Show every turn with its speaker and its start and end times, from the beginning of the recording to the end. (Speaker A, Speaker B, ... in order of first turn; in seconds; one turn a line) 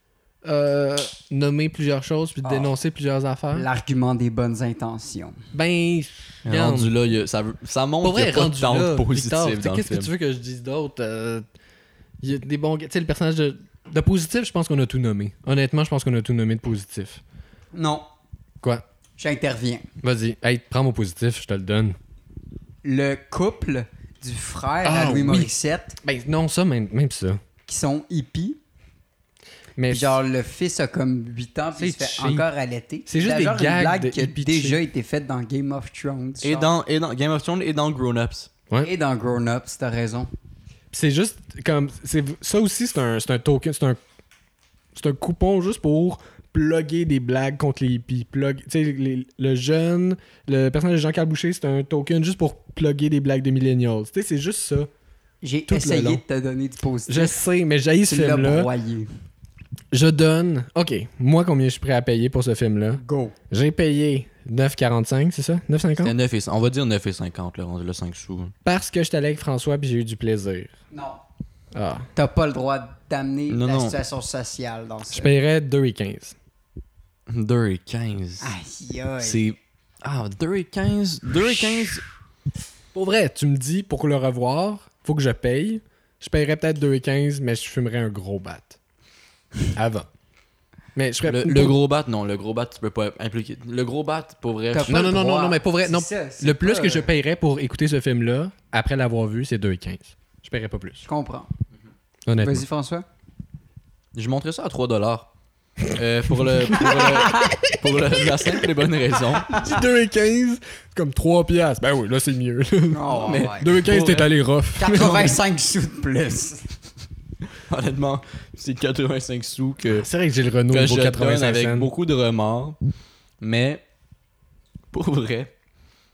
Speaker A: 0.4-3.7
Speaker B: 2.4-2.7
Speaker B: 3.5-5.4
Speaker A: 5.5-6.9
Speaker C: 6.5-10.1
Speaker A: 8.0-11.4
Speaker A: 12.2-17.2
Speaker B: 17.7-18.1
Speaker B: 19.2-19.9
Speaker A: 20.0-22.0
Speaker B: 22.8-26.0
Speaker A: 24.8-25.5
Speaker A: 26.0-27.4
Speaker B: 27.7-28.6
Speaker A: 29.8-30.2
Speaker B: 29.9-36.7
Speaker A: 31.8-32.5
Speaker A: 33.1-34.8
Speaker C: 36.4-38.5
Speaker B: 38.8-40.3
Speaker A: 40.9-44.0
Speaker A: 45.0-54.9
Speaker B: 55.4-57.4
Speaker A: 55.7-56.2
Speaker A: 57.1-58.7
Speaker B: 58.1-59.1
Speaker A: 59.9-66.2
Speaker B: 63.0-63.4
Speaker C: 66.0-68.5
Speaker A: 68.7-70.7
Speaker B: 70.9-71.2
Speaker A: 71.7-72.1
Speaker B: 72.2-75.3
Speaker C: 73.5-74.0
Speaker A: 75.1-76.4
Speaker C: 77.3-78.5
Speaker B: 78.4-79.5
Speaker C: 79.2-82.0
Speaker A: 81.6-81.9
Speaker A: 82.9-88.8
Speaker A: 89.7-90.1
Speaker A: 91.0-91.8
Speaker C: 91.2-95.1
Speaker B: 94.7-97.1
Speaker A: 94.9-101.1
Speaker B: 101.1-101.5
Speaker A: 102.3-102.7
Speaker B: 102.4-103.1
Speaker C: 104.1-105.3
Speaker C: 105.8-109.8
Speaker A: 105.9-107.8
Speaker B: 107.1-107.6
Speaker A: 109.5-115.4
Speaker B: 112.9-113.8
Speaker C: 113.2-114.3
Speaker B: 114.8-116.8
Speaker C: 117.7-120.1
Speaker A: 119.9-121.9
Speaker C: 120.7-122.8
Speaker C: 123.4-123.8
Speaker C: 124.9-125.5